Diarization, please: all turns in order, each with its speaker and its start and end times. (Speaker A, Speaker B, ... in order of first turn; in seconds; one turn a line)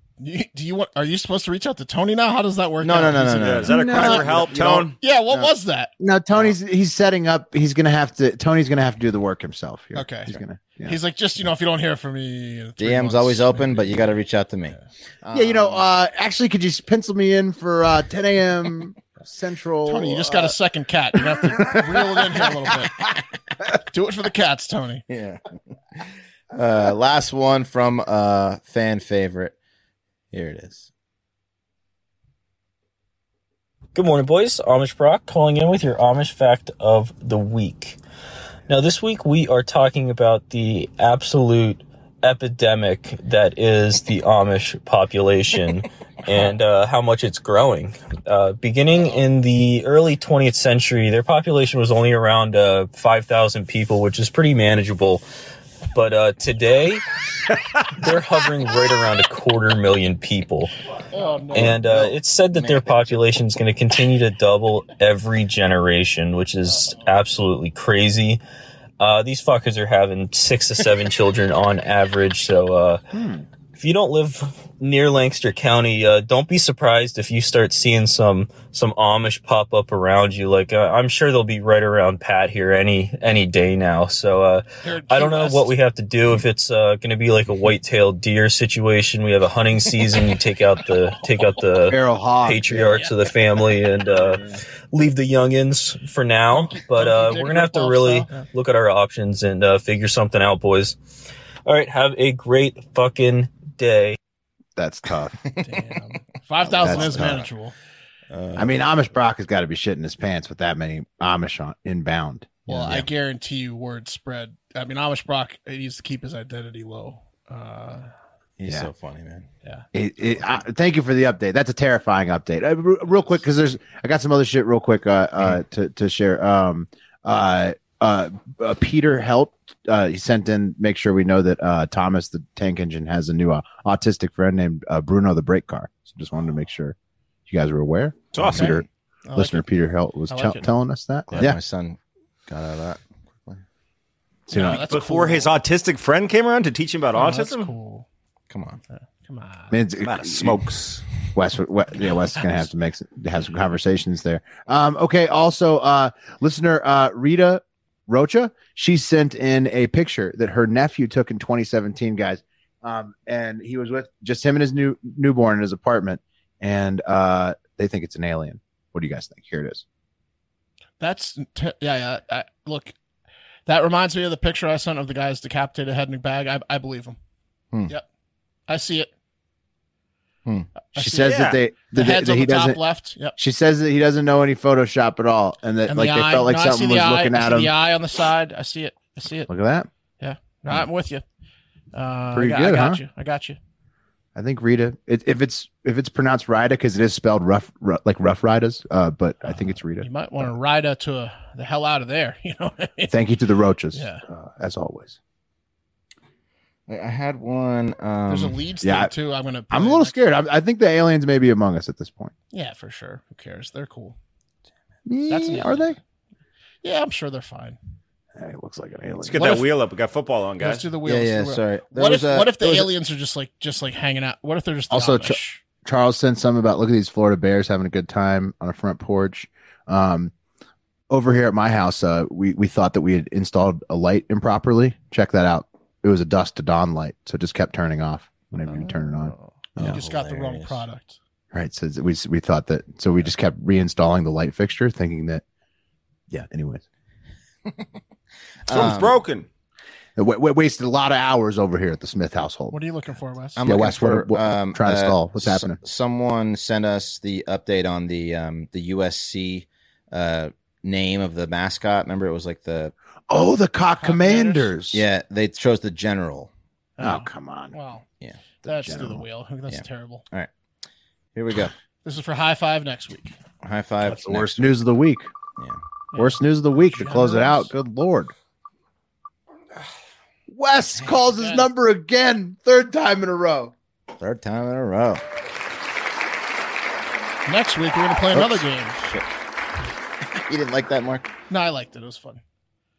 Speaker A: 0.2-4.2
Speaker B: 2.8-4.3
Speaker C: 3.4-5.0
Speaker D: 3.7-4.9
Speaker A: 5.0-5.9
Speaker D: 6.0-11.0
Speaker A: 9.9-14.0
Speaker B: 12.8-15.8
Speaker D: 15.3-20.6
Speaker A: 19.9-23.0
Speaker D: 21.4-22.2
Speaker A: 23.9-25.0
Speaker B: 25.1-25.4
Speaker B: 26.5-29.5
Speaker B: 30.3-30.9
Speaker E: 33.9-38.0
Speaker E: 38.7-55.2
Speaker E: 55.9-57.0
Speaker E: 57.9-60.7
Speaker A: 61.1-61.8
Speaker E: 61.5-68.4
Speaker B: 61.5-63.1
Speaker E: 69.0-73.0
Speaker D: 73.1-73.5
Speaker E: 73.7-101.0
Speaker A: 84.8-85.7
Speaker D: 91.9-93.0
Speaker A: 96.5-98.4
Speaker E: 101.7-104.2
Speaker D: 104.8-105.4
Speaker B: 105.4-105.7
Speaker A: 105.6-107.7
Speaker B: 106.6-107.5
Speaker D: 106.8-107.4
Speaker B: 108.3-108.7
Speaker D: 108.5-113.0
Speaker A: 112.7-118.1
Speaker B: 112.7-113.0
Speaker B: 118.6-119.5
Speaker D: 119.9-136.9
Speaker D: 137.5-141.6
Speaker C: 138.3-138.7
Speaker B: 138.4-138.8
Speaker A: 138.5-139.7
Speaker A: 140.3-140.7
Speaker B: 141.3-143.6
Speaker A: 144.5-145.5
Speaker D: 144.5-144.9
Speaker C: 144.6-147.7
Speaker A: 147.1-148.0
Speaker B: 148.5-148.8
Speaker A: 148.9-149.8
Speaker D: 149.7-150.8
Speaker C: 150.0-151.0
Speaker D: 151.3-169.8
Speaker A: 171.0-172.9
Speaker A: 173.7-177.2
Speaker A: 178.7-179.1
Speaker A: 180.9-183.4
Speaker D: 180.9-182.8
Speaker C: 181.2-181.6
Speaker D: 183.4-187.7
Speaker A: 185.9-189.5
Speaker D: 189.5-189.9
Speaker A: 190.2-191.2
Speaker A: 191.9-193.6
Speaker D: 192.3-193.0
Speaker D: 194.3-200.1
Speaker A: 199.4-203.2
Speaker D: 203.1-205.2
Speaker A: 203.9-204.2
Speaker B: 206.9-208.6
Speaker A: 208.2-210.2
Speaker D: 208.8-209.1
Speaker D: 209.7-212.3
Speaker A: 212.5-214.2
Speaker D: 215.1-216.0
Speaker A: 215.3-216.0
Speaker A: 216.8-217.8
Speaker D: 218.3-219.7
Speaker C: 219.2-220.9
Speaker A: 219.4-219.7
Speaker A: 220.6-225.6
Speaker B: 221.0-222.9
Speaker D: 224.9-230.3
Speaker D: 231.1-240.0
Speaker A: 238.6-241.2
Speaker B: 239.8-240.8
Speaker D: 241.5-245.4
Speaker D: 246.3-246.8
Speaker B: 248.7-249.2
Speaker C: 248.7-249.4
Speaker D: 250.2-252.8
Speaker A: 252.7-253.6
Speaker B: 253.6-262.9
Speaker D: 253.6-255.8
Speaker D: 263.3-265.0
Speaker A: 264.0-264.7
Speaker B: 264.9-266.5
Speaker A: 267.0-268.0
Speaker D: 267.0-267.7
Speaker A: 268.6-270.2
Speaker D: 268.7-269.2
Speaker B: 269.7-270.5
Speaker B: 271.3-271.7
Speaker A: 272.0-273.3
Speaker B: 273.6-274.7
Speaker D: 274.0-275.3
Speaker A: 276.1-277.7
Speaker D: 276.1-278.3
Speaker D: 280.5-283.7
Speaker A: 281.3-281.7
Speaker B: 284.2-285.2
Speaker A: 287.4-289.0
Speaker B: 288.3-289.2
Speaker B: 290.4-291.3
Speaker A: 291.5-292.4